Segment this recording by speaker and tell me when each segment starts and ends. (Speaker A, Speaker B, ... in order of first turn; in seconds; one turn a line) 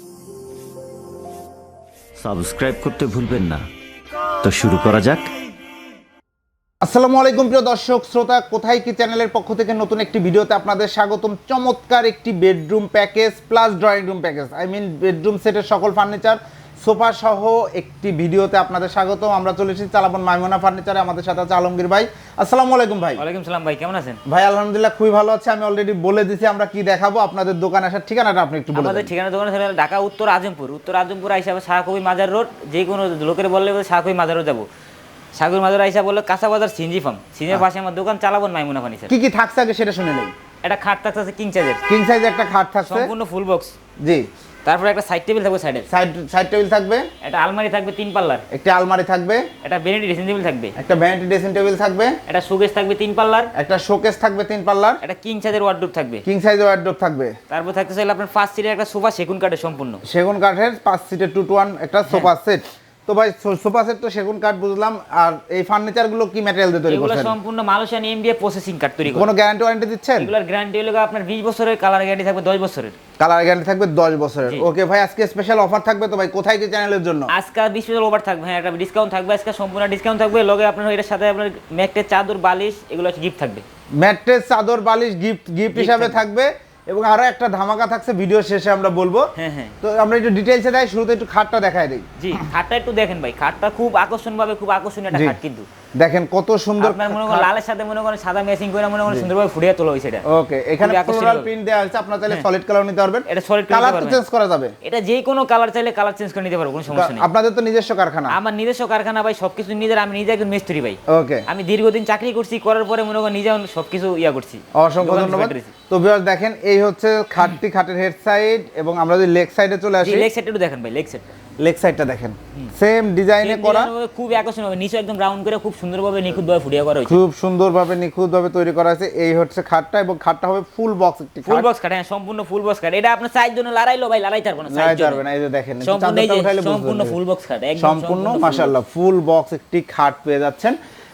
Speaker A: 2.2-3.6
Speaker A: 4.4-5.3
Speaker B: 6.8-23.2
Speaker C: 23.2-24.2
Speaker B: 24.3-29.1
Speaker C: 28.7-34.7
Speaker C: 35.4-39.1
Speaker B: 39.1-40.3
Speaker C: 40.6-41.8
Speaker B: 41.9-43.1
Speaker C: 42.8-43.7
Speaker C: 44.6-45.9
Speaker B: 45.9-47.1
Speaker C: 47.2-48.4
Speaker B: 48.5-49.5
Speaker C: 49.6-50.7
Speaker B: 50.8-52.2
Speaker C: 52.3-53.5
Speaker B: 53.5-55.0
Speaker C: 55.0-56.2
Speaker B: 56.2-57.4
Speaker C: 57.5-60.0
Speaker B: 60.0-67.3
Speaker C: 66.9-69.3
Speaker B: 69.1-70.3
Speaker C: 70.2-73.0
Speaker B: 73.2-77.3
Speaker C: 77.3-83.7
Speaker B: 84.0-89.3
Speaker C: 85.7-86.2
Speaker C: 89.3-89.8
Speaker B: 89.8-92.5
Speaker C: 92.2-95.7
Speaker B: 95.1-95.4
Speaker B: 96.0-97.5
Speaker C: 96.8-100.2
Speaker B: 100.3-104.7
Speaker C: 100.8-101.5
Speaker C: 103.3-104.2
Speaker C: 104.8-107.3
Speaker B: 106.9-108.3
Speaker C: 108.3-115.7
Speaker B: 111.1-111.4
Speaker B: 114.7-120.3
Speaker C: 120.0-121.2
Speaker B: 121.6-123.9
Speaker C: 123.4-127.2
Speaker B: 127.0-131.7
Speaker C: 131.4-135.2
Speaker B: 134.7-137.2
Speaker C: 135.8-138.7
Speaker B: 137.8-140.8